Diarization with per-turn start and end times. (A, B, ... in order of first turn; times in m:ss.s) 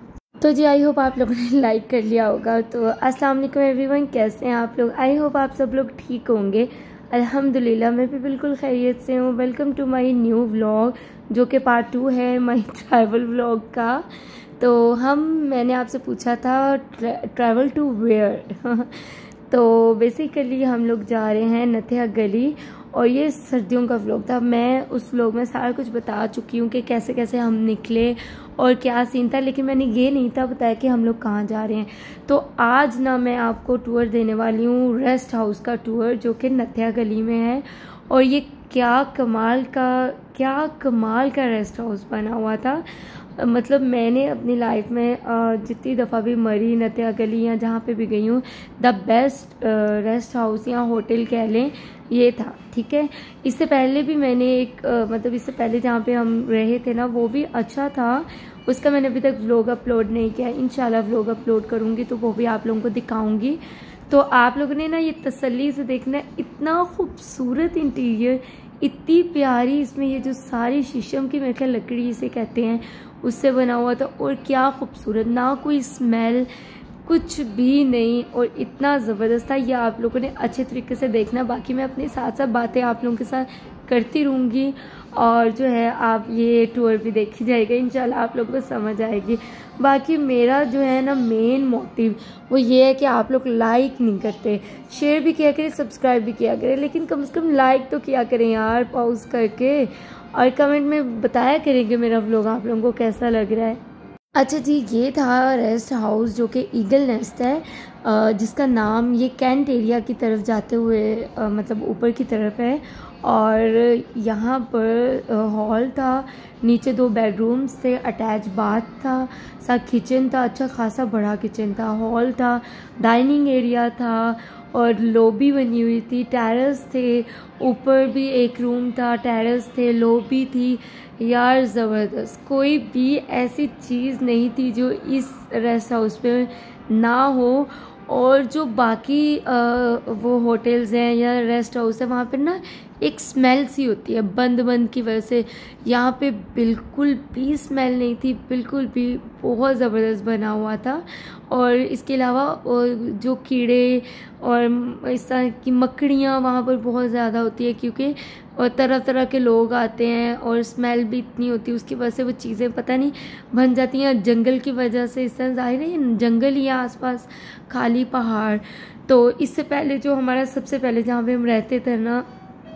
0:00.4-0:14.0 A
0:14.6-0:18.9 A
0:19.5-0:42.8 A
0:43.4-1:16.5 A
1:17.0-1:43.8 A
1:44.4-2:52.2 A